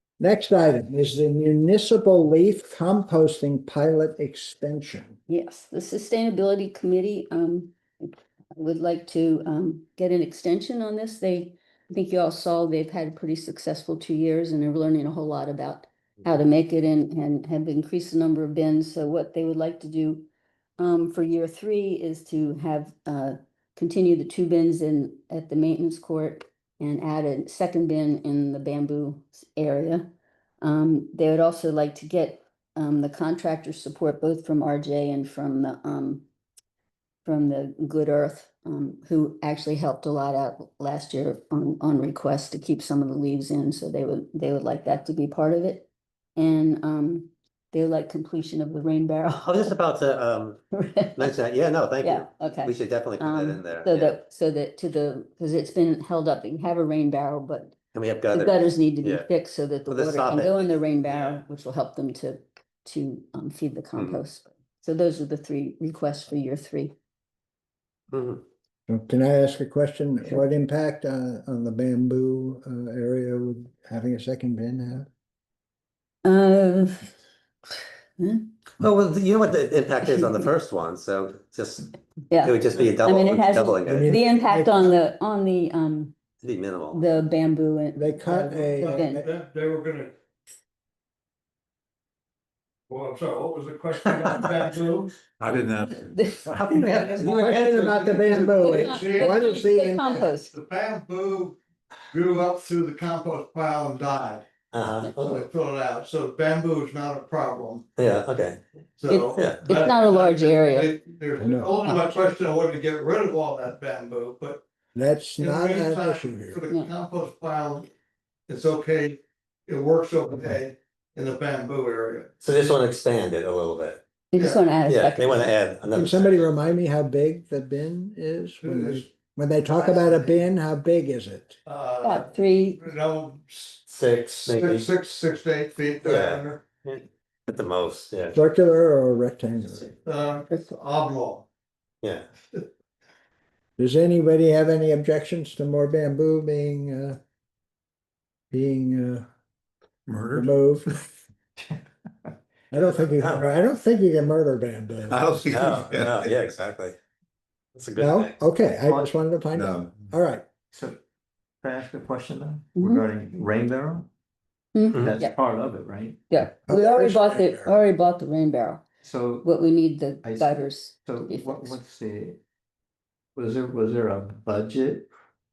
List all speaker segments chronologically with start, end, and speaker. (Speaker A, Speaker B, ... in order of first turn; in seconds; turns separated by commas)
Speaker A: 0.2-5.2, Speaker B: 5.3-36.2, Speaker B: 37.2-49.8, Speaker C: 49.5-50.6, Speaker B: 50.7-51.3, Speaker C: 51.2-54.1, Speaker B: 52.0-57.7, Speaker C: 57.9-59.3, Speaker B: 58.3-67.0, Speaker C: 59.9-61.4, Speaker C: 63.9-64.2, Speaker C: 68.1-68.4, Speaker A: 68.9-75.1, Speaker B: 76.2-77.1, Speaker B: 78.2-78.5, Speaker C: 78.8-81.9, Speaker B: 82.3-86.1, Speaker C: 82.4-84.1, Speaker A: 83.9-84.9, Speaker C: 86.4-87.0, Speaker B: 86.9-89.2, Speaker A: 88.0-89.3, Speaker D: 88.3-90.1, Speaker D: 92.9-95.2, Speaker E: 95.4-97.8, Speaker B: 95.8-97.5, Speaker C: 96.7-97.8, Speaker A: 97.1-100.2, Speaker D: 97.9-99.6, Speaker B: 98.3-100.5, Speaker D: 100.3-101.6, Speaker D: 102.1-104.5, Speaker C: 104.7-105.4, Speaker D: 105.1-107.9, Speaker C: 108.0-108.6, Speaker D: 109.0-114.6, Speaker B: 109.1-110.9, Speaker C: 109.3-109.7, Speaker A: 111.4-111.7, Speaker B: 111.8-112.1, Speaker A: 115.0-116.6, Speaker D: 115.4-117.9, Speaker D: 118.5-122.3, Speaker C: 122.4-124.0, Speaker B: 124.3-125.5, Speaker D: 124.4-124.6, Speaker C: 124.9-126.4, Speaker A: 125.9-131.6, Speaker D: 128.6-129.1, Speaker D: 131.7-136.6, Speaker B: 132.0-132.9, Speaker C: 133.9-134.9, Speaker C: 136.0-138.4, Speaker A: 138.3-139.9, Speaker D: 140.0-141.5, Speaker C: 142.0-142.3, Speaker A: 143.8-147.2, Speaker A: 148.5-149.2, Speaker E: 150.1-150.5, Speaker A: 150.3-150.9, Speaker F: 151.6-152.3, Speaker A: 152.7-155.7, Speaker C: 153.2-153.5, Speaker E: 155.1-156.4, Speaker C: 155.5-157.0, Speaker C: 157.8-158.3, Speaker A: 158.0-160.4, Speaker F: 158.8-159.1, Speaker E: 159.6-159.9, Speaker F: 160.7-161.0, Speaker F: 161.6-164.1, Speaker B: 162.8-163.1, Speaker B: 164.8-165.4, Speaker C: 164.9-165.2, Speaker F: 165.0-166.4, Speaker B: 166.3-168.8, Speaker A: 166.7-167.8, Speaker F: 169.0-169.5, Speaker B: 169.4-171.8, Speaker F: 170.2-172.4, Speaker F: 173.4-175.1